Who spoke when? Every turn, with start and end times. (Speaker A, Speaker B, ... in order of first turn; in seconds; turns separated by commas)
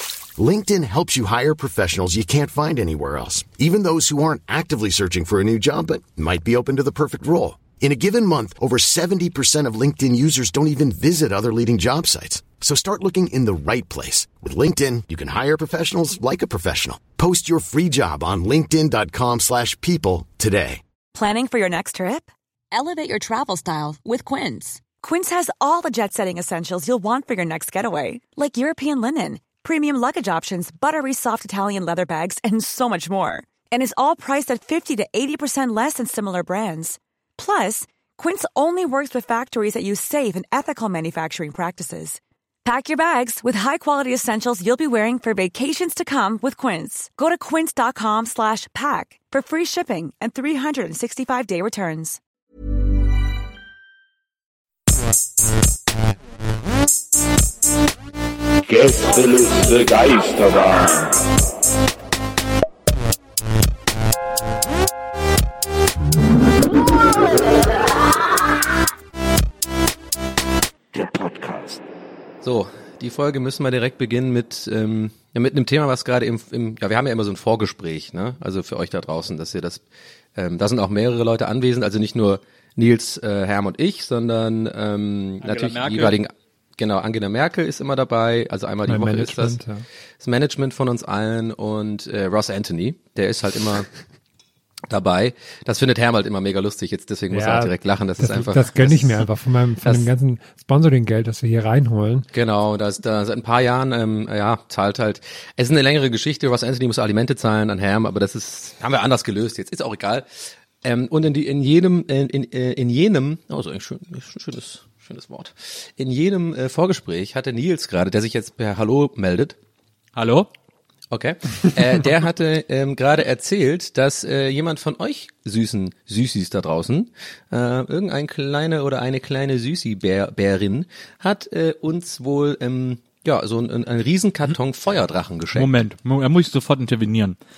Speaker A: 0.4-20.8, Speaker B: 21.1-52.2, Speaker C: 58.7-61.2, Speaker C: 70.9-71.8, Speaker D: 72.4-79.8, Speaker D: 80.4-89.5, Speaker E: 85.4-86.2, Speaker F: 88.9-89.8, Speaker D: 90.2-93.9, Speaker D: 94.9-99.2, Speaker F: 97.3-102.3, Speaker D: 102.3-110.3, Speaker D: 110.8-119.5, Speaker E: 120.2-120.5, Speaker D: 121.1-135.7, Speaker E: 135.5-137.4